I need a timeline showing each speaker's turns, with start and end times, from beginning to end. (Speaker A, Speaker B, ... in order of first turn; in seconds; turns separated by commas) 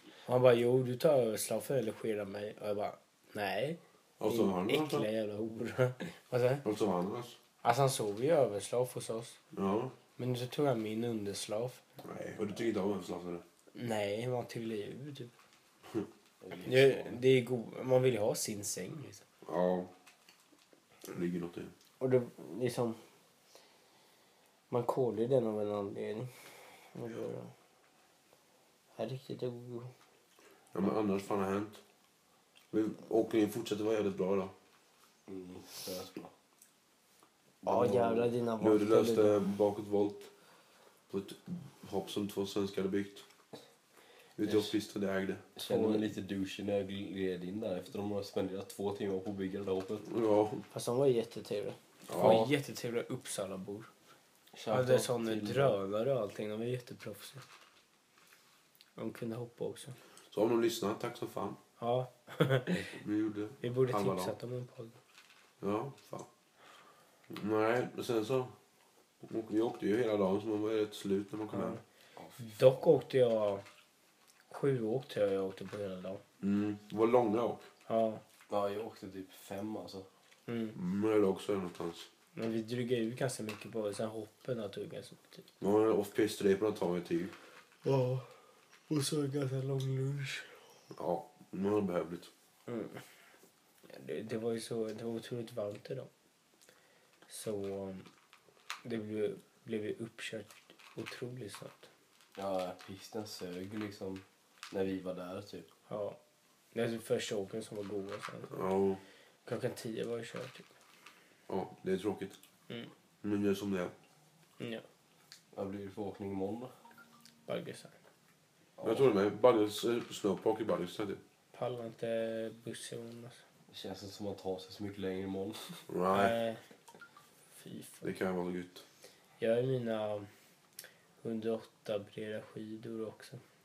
Speaker A: 0.3-6.7, Speaker B: 4.2-5.1, Speaker B: 6.6-7.4, Speaker A: 7.6-9.4, Speaker B: 9.5-9.9, Speaker A: 10.2-11.8, Speaker B: 12.0-13.4, Speaker A: 13.8-15.3, Speaker C: 16.4-17.2, Speaker A: 16.6-19.2, Speaker B: 19.4-19.9, Speaker B: 21.1-21.7, Speaker A: 22.0-23.0, Speaker A: 24.7-27.5, Speaker A: 29.0-29.9, Speaker B: 30.7-31.8, Speaker B: 32.7-34.5, Speaker C: 35.3-36.3, Speaker C: 37.6-38.3, Speaker A: 37.6-39.4, Speaker B: 38.6-40.3, Speaker B: 41.1-43.2, Speaker B: 44.4-46.0, Speaker C: 45.6-50.1, Speaker B: 50.1-50.6, Speaker A: 50.7-53.9, Speaker B: 52.1-52.5, Speaker C: 54.5-55.8, Speaker A: 54.7-57.4, Speaker A: 59.0-60.0, Speaker B: 60.3-61.6, Speaker A: 61.8-62.9, Speaker B: 62.9-64.3, Speaker A: 63.6-65.0, Speaker B: 65.6-66.3, Speaker B: 67.3-68.5, Speaker B: 69.2-71.8, Speaker A: 71.5-71.8, Speaker C: 72.2-72.9, Speaker A: 72.4-73.6, Speaker A: 74.5-76.2, Speaker B: 76.4-77.6, Speaker A: 77.9-78.2, Speaker C: 78.5-80.1, Speaker A: 80.5-80.8, Speaker B: 80.7-82.1, Speaker A: 82.3-85.5, Speaker B: 85.6-87.3, Speaker A: 87.8-88.3, Speaker A: 88.9-90.5, Speaker B: 91.0-92.3, Speaker A: 92.7-93.0, Speaker A: 93.9-96.1, Speaker A: 97.3-98.1, Speaker A: 98.8-101.9, Speaker C: 102.4-105.7, Speaker A: 105.9-106.2, Speaker A: 106.7-108.6, Speaker B: 108.5-109.0, Speaker A: 109.5-110.7, Speaker B: 111.5-112.4, Speaker B: 113.2-113.9, Speaker C: 115.5-116.7, Speaker A: 117.5-118.0, Speaker C: 118.8-119.1, Speaker B: 118.8-121.2, Speaker A: 121.5-123.4, Speaker C: 123.7-125.8, Speaker B: 125.9-126.3, Speaker A: 126.1-126.6, Speaker A: 127.6-128.1, Speaker B: 128.0-128.8, Speaker A: 129.4-130.3, Speaker A: 131.2-133.4